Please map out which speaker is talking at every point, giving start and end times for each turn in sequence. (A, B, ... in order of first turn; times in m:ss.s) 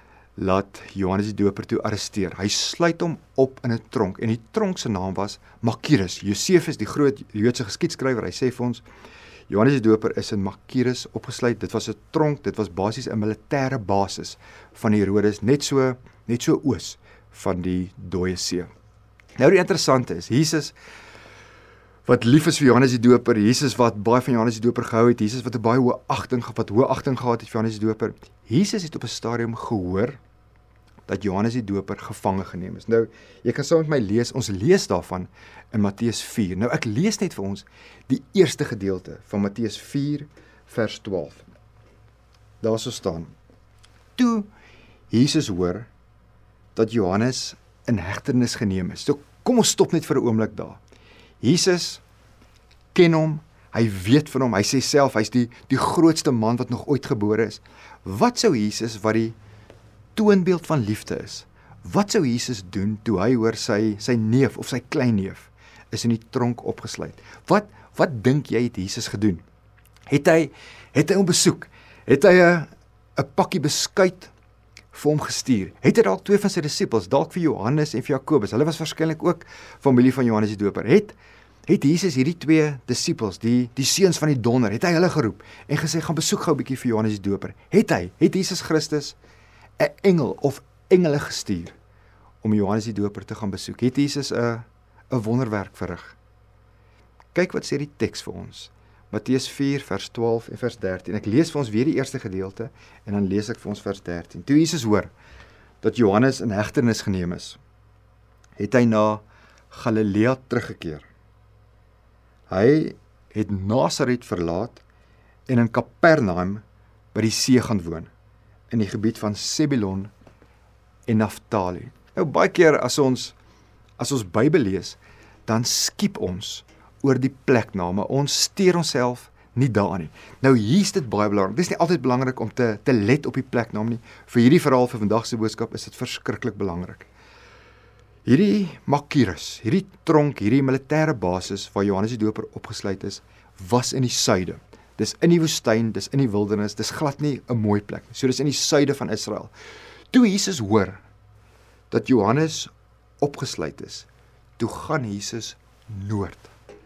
0:00.4-0:08.8 A
0:09.5-0:18.7 A
0:19.4-0:20.7 A
0:22.0-0:30.2 A
0:31.1-0:41.5 A
0:42.6-0:43.3 A
0:44.2-0:44.5 A
0:45.1-0:45.9 A
0:46.7-0:50.8 A
0:51.4-0:52.0 A
0:52.9-0:59.4 A
1:00.2-1:09.4 A
1:10.1-1:14.3 A
1:14.9-1:21.2 A
1:21.7-1:29.2 A
1:29.8-1:31.7 A
1:32.4-1:36.2 A
1:37.3-1:45.1 A
1:45.8-1:47.6 A
1:48.6-1:51.1 A
1:52.5-1:54.8 A
1:55.5-1:56.6 A
1:57.1-1:58.1 A
1:58.7-2:00.1 A
2:01.1-2:03.4 A
2:04.0-2:17.1 A
2:18.2-2:29.5 A
2:30.1-2:31.0 A
2:31.9-2:36.5 A